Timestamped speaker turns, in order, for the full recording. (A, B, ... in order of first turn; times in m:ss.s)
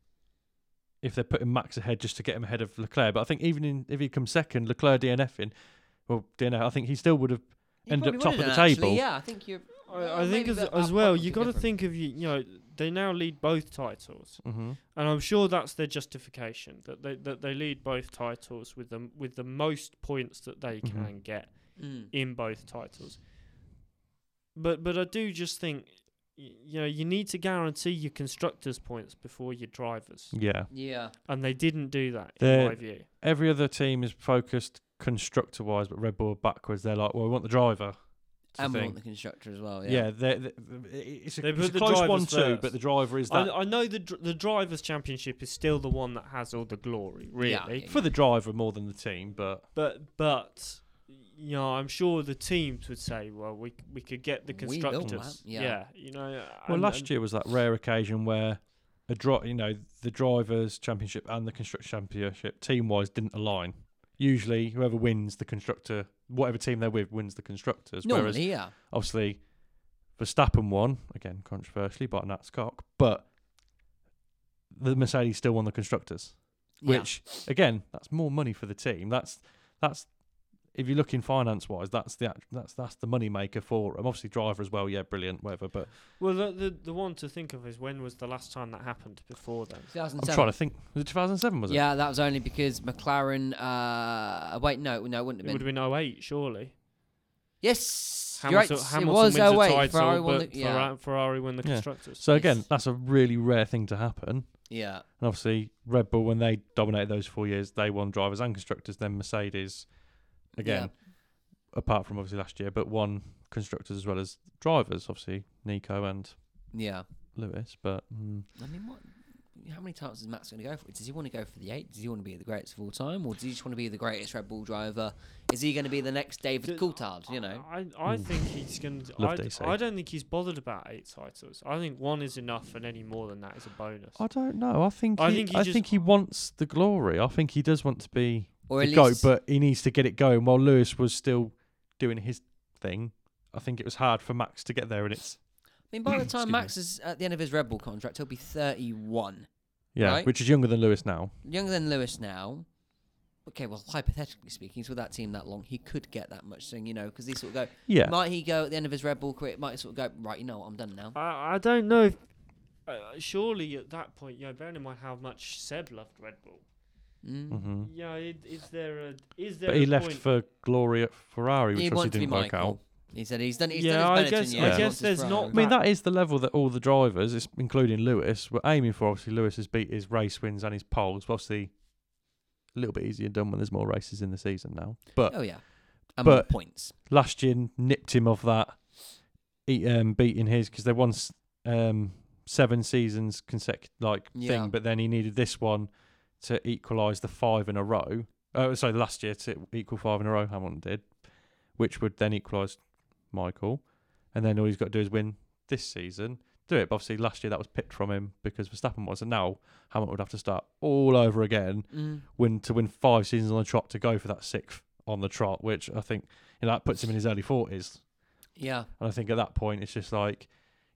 0:01.0-0:09.0 A
0:07.8-0:11.7 B
0:09.9-0:23.3 C
0:14.4-0:14.8 A
0:20.8-0:21.1 A
0:21.8-0:22.1 B
0:24.6-0:33.1 C
0:30.3-0:30.7 A
0:30.7-0:31.2 B
0:32.4-0:39.0 A
0:38.6-0:40.1 B
0:39.8-0:43.5 A
0:41.4-0:47.9 C
0:47.4-0:48.1 B
0:47.9-0:49.7 A
0:49.7-0:57.1 C
0:54.5-0:55.8 B
0:56.7-1:13.3 A
1:08.0-1:08.7 B
1:14.7-1:26.0 A
1:16.8-1:17.3 B
1:26.2-1:29.9 C
1:29.9-1:30.6 B
1:30.2-1:31.8 A
1:31.7-1:35.7 B
1:35.4-1:36.8 C
1:37.6-1:40.9 B
1:38.4-1:42.2 C
1:41.6-1:56.7 A
1:42.3-1:42.6 B
1:44.7-1:45.0 B
1:50.6-1:50.9 B
1:56.7-1:57.1 B
1:57.3-1:58.5 A
1:58.6-2:07.6 B
2:06.6-2:14.4 C
2:08.1-2:08.5 A
2:09.2-2:09.8 A
2:14.2-2:25.4 A
2:15.2-2:15.9 C
2:18.7-2:19.3 B
2:25.9-2:30.3 B
2:26.1-2:26.7 A
2:30.0-2:31.3 A
2:31.4-2:32.7 B
2:33.4-2:41.2 B
2:37.9-2:38.2 A
2:41.2-2:46.6 C
2:47.2-2:47.7 B
2:47.5-2:47.9 A
2:47.8-2:50.3 C
2:49.7-2:52.8 A
2:51.8-2:55.6 B
2:53.7-2:55.8 C
2:54.6-3:38.1 A
3:05.3-3:06.9 B
3:14.3-3:14.7 B
3:31.9-3:32.3 B
3:38.6-3:38.9 B
3:39.0-3:40.6 A